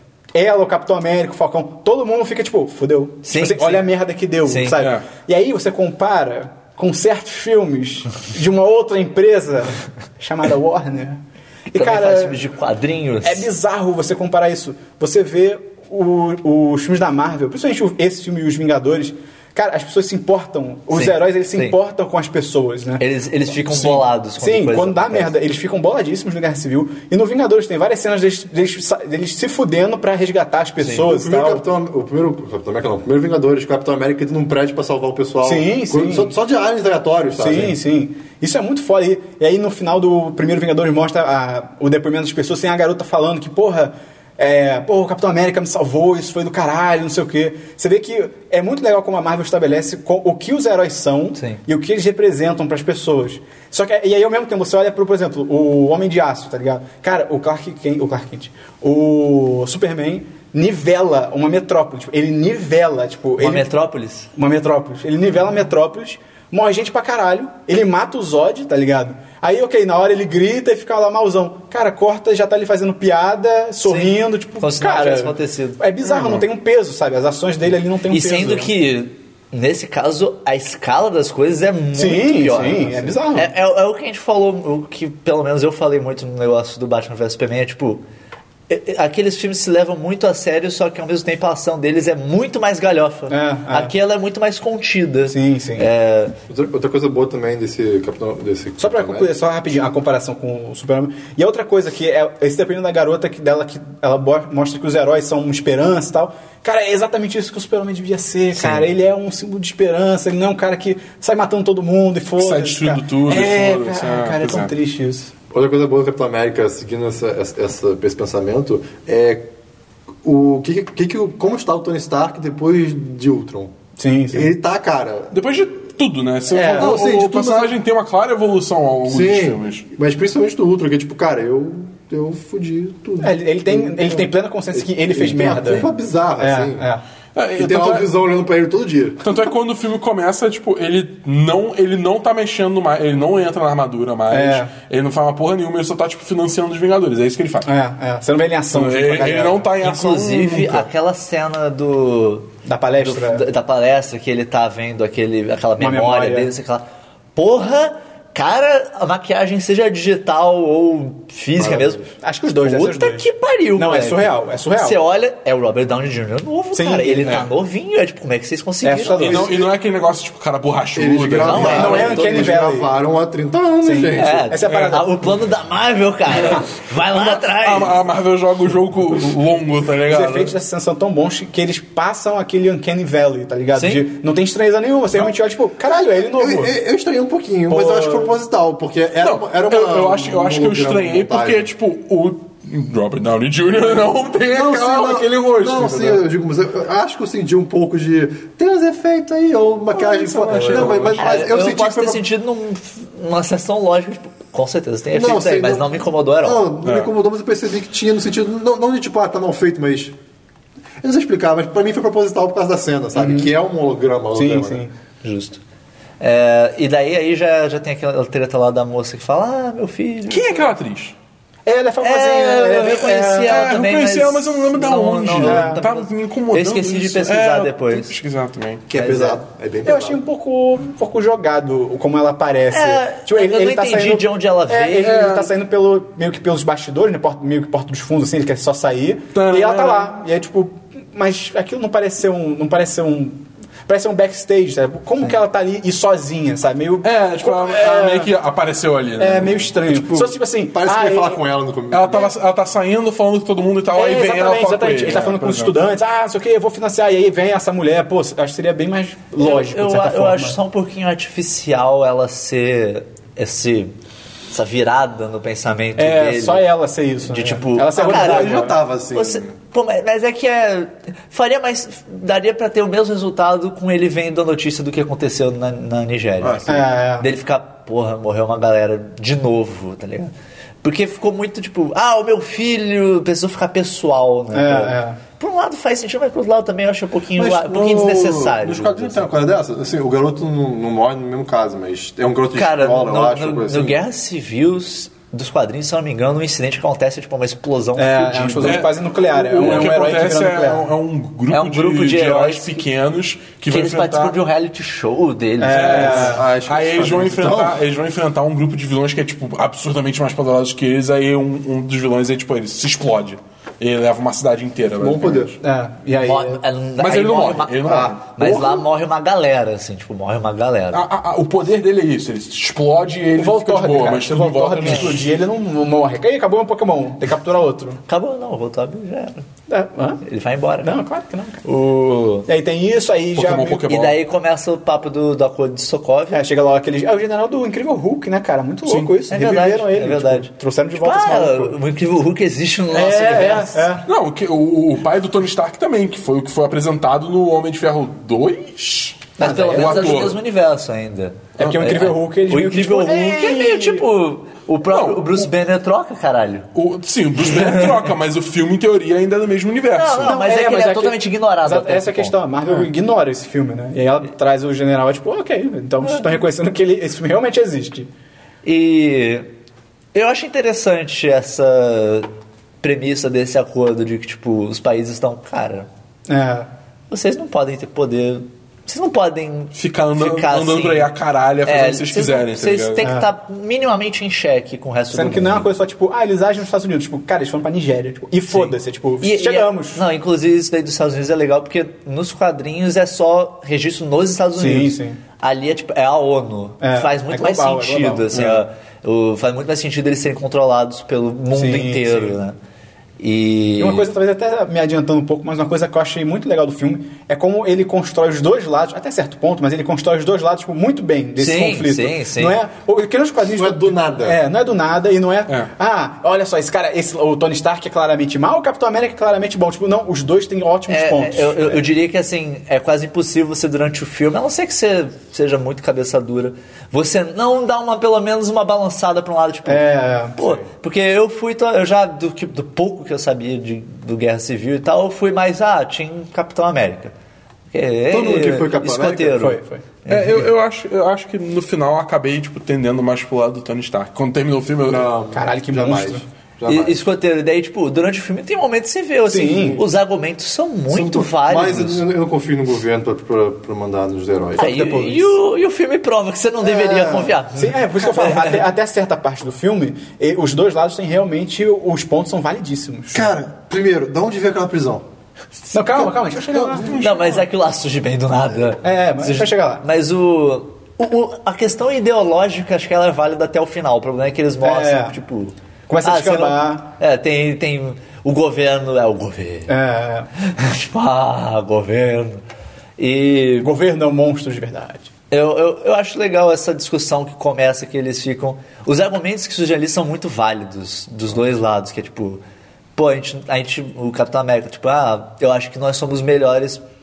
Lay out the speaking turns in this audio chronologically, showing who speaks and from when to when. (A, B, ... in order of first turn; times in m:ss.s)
0:00.4-0:12.4 A
0:03.2-0:03.8 B
0:04.5-0:04.8 B
0:04.8-0:05.0 C
0:11.8-0:13.5 B
0:13.2-0:23.0 A
0:20.9-0:21.8 B
0:23.0-0:25.3 B
0:23.7-0:24.0 C
0:24.4-0:31.6 A
0:30.8-0:37.8 D
0:35.4-0:36.4 A
0:37.4-1:03.7 A
1:03.4-1:04.3 B
1:04.4-1:18.7 A
1:13.8-1:15.8 B
1:18.1-1:28.0 B
1:21.9-1:23.5 A
1:28.7-1:36.3 B
1:33.3-1:33.9 A
1:35.3-1:35.9 A
1:36.5-1:39.3 D
1:38.8-1:55.3 A
1:48.6-1:48.8 B
1:52.4-1:54.7 C
1:55.5-1:59.5 D
2:00.2-2:03.7 D
2:04.0-2:04.5 A
2:04.3-2:05.3 D
2:05.3-2:09.8 C
2:06.5-2:07.0 A
2:06.7-2:07.7 D
2:09.1-2:16.9 D
2:13.2-2:17.0 A
2:17.4-2:18.1 C
2:17.6-2:19.2 D
2:19.2-2:27.7 C
2:24.3-2:24.7 A
2:27.6-2:29.7 A
2:28.7-2:30.9 C
2:29.8-2:42.1 B
2:32.6-2:33.5 A
2:35.8-2:36.5 A
2:41.6-2:45.0 A
2:42.6-2:49.5 B
2:46.7-2:47.3 A
2:47.2-2:47.5 C
2:48.8-2:49.5 A
2:49.1-2:52.1 C
2:49.2-2:49.6 D
2:51.0-2:54.4 D
2:51.4-2:52.6 B
2:51.6-2:52.9 A
2:53.8-2:55.2 A
2:54.2-2:57.9 B
2:54.7-2:55.0 C
2:57.2-3:00.5 C
3:00.1-3:06.8 A
3:03.7-3:04.0 B
3:05.9-3:11.7 D
3:07.7-3:08.4 A
3:09.2-3:16.2 C
3:14.5-3:22.2 D
3:19.9-3:21.5 C
3:20.5-3:26.7 B
3:25.1-3:30.2 D
3:26.8-3:27.1 C
3:31.0-3:34.8 D
3:33.2-3:33.5 A
3:34.3-3:34.9 A
3:35.2-3:35.6 B
3:36.2-3:40.7 B
3:40.3-3:41.2 C
3:41.7-3:43.6 A
3:42.0-3:48.1 B
3:42.8-3:48.9 C
3:45.4-3:45.8 A
3:48.9-3:50.2 D
3:48.9-3:49.4 B
3:49.8-4:08.3 A
3:52.7-3:55.3 B
3:55.0-3:55.5 C
3:59.3-4:00.1 C
4:07.0-4:09.8 C
4:09.2-4:11.4 A
4:09.9-4:12.3 D
4:11.9-4:15.8 C
4:13.9-4:20.6 A
4:19.4-4:23.9 B
4:24.5-4:26.7 B
4:26.0-4:28.8 A
4:27.2-4:49.3 B
4:28.0-4:29.5 D
4:36.4-4:36.8 D
4:36.7-4:37.3 A
4:44.5-4:45.2 A
4:47.4-4:54.0 D
4:52.5-4:58.9 B
4:58.0-5:00.9 A
4:58.6-5:04.4 C
5:01.5-5:02.8 B
5:03.7-5:06.4 B
5:05.6-5:06.4 A
5:05.7-5:15.6 C
5:05.9-5:07.8 D
5:15.0-5:15.6 D
5:15.6-5:16.6 A
5:16.2-5:21.0 B
5:17.0-5:18.8 C
5:17.8-5:18.2 D
5:20.9-5:25.3 C
5:23.4-5:28.0 A
5:28.1-5:29.4 B
5:29.7-5:30.2 A
5:30.2-5:31.0 B
5:30.8-5:31.6 A
5:31.6-5:32.5 B
5:32.5-5:33.9 A
5:33.4-5:34.2 C
5:33.9-5:36.4 B
5:36.3-5:41.8 A
5:38.9-5:39.1 C
5:39.3-5:44.0 B
5:42.9-5:44.0 A
5:44.1-5:50.4 C
5:49.4-5:56.7 B
5:49.4-5:50.2 A
5:51.6-5:54.0 A
5:54.9-5:55.5 C
5:56.8-6:00.4 C
5:57.5-5:58.0 B
6:00.0-6:02.4 B
6:00.2-6:08.1 A
6:08.6-6:09.5 B
6:10.1-6:12.3 B
6:12.8-6:15.9 B
6:16.3-6:16.7 A
6:17.1-6:21.1 B
6:19.7-6:23.0 C
6:21.6-6:25.7 B
6:23.0-6:23.3 A
6:25.1-6:30.0 A
6:28.5-6:42.6 B
6:34.6-6:35.2 A
6:36.8-6:38.4 A
6:38.3-6:38.6 C
6:41.5-6:42.4 A
6:43.2-6:44.1 B
6:43.8-7:01.9 A
6:51.4-6:52.6 B
6:53.6-6:54.4 D
7:00.9-7:17.1 B
7:09.7-7:10.6 A
7:17.7-7:20.5 B
7:18.1-7:19.4 D
7:19.4-7:19.8 A
7:20.1-7:25.1 C
7:24.9-7:27.0 D
7:25.3-7:26.2 A
7:26.7-7:32.0 B
7:29.3-7:29.8 A
7:30.9-7:34.7 D
7:34.6-7:35.4 A
7:34.6-7:38.6 B
7:36.6-7:37.4 D
7:37.6-7:43.3 A
7:43.1-7:45.0 D
7:45.7-7:46.9 A
7:46.5-7:47.4 C
7:46.9-7:59.7 B
7:48.8-7:49.8 A
7:54.6-7:55.2 A
7:55.9-7:56.9 A
7:59.7-8:00.3 A
8:00.4-8:02.4 B
8:03.0-8:03.7 B
8:03.6-8:05.1 A
8:05.3-8:12.4 B
8:13.0-8:16.8 B